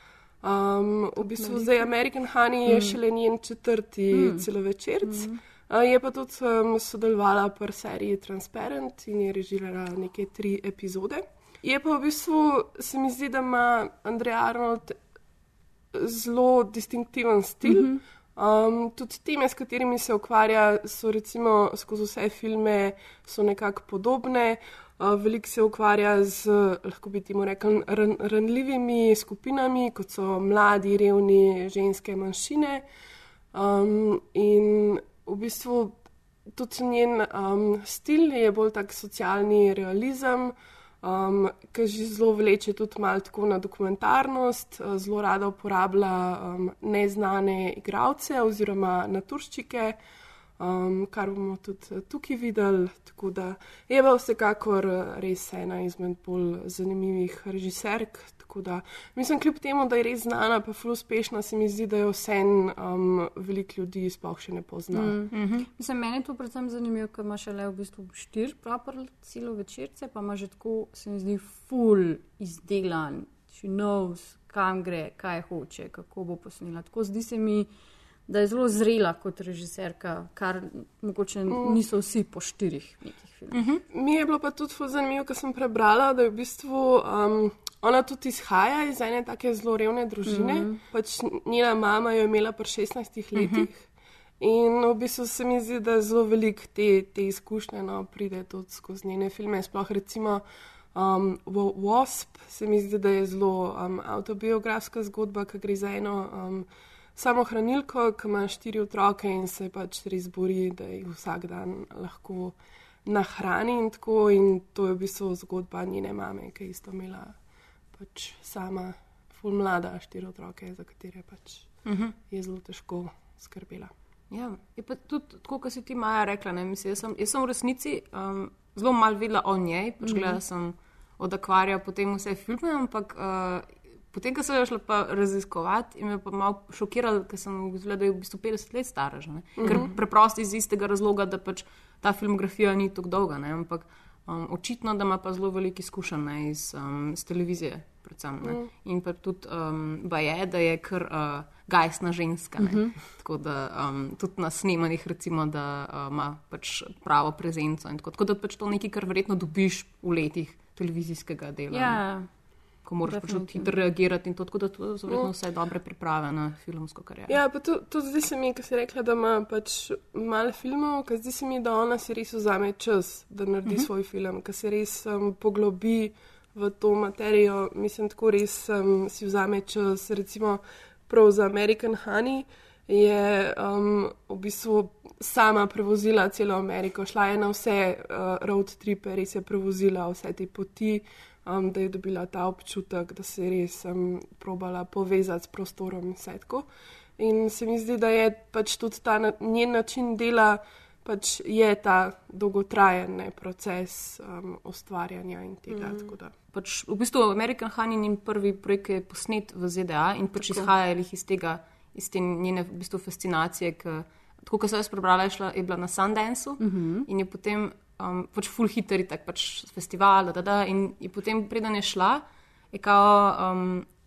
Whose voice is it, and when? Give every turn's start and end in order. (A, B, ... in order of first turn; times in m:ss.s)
0:00.4-0:15.0 A
0:01.2-0:01.8 B
0:02.6-0:03.0 B
0:04.1-0:04.4 B
0:05.0-0:05.4 B
0:15.9-0:32.8 A
0:17.6-0:18.0 B
0:33.5-0:36.0 A
0:36.5-0:50.0 A
0:50.6-1:05.2 A
1:04.9-1:17.7 B
1:05.3-1:05.7 C
1:18.3-1:23.6 B
1:21.5-1:21.8 A
1:23.5-1:23.8 C
1:23.9-1:33.8 A
1:30.2-1:30.8 B
1:33.3-1:33.7 C
1:34.4-1:40.4 A
1:40.9-1:57.4 A
1:57.9-2:03.9 A
2:01.8-2:02.1 C
2:04.3-2:42.1 C
2:10.0-2:10.4 B
2:19.6-2:19.9 A
2:32.6-2:32.9 B
2:41.7-2:42.3 B
2:42.8-2:47.4 C
2:43.0-2:43.7 B
2:47.3-3:16.7 A
3:17.2-3:26.3 A
3:26.5-3:43.8 C
3:30.4-3:30.7 B
3:36.6-3:37.1 B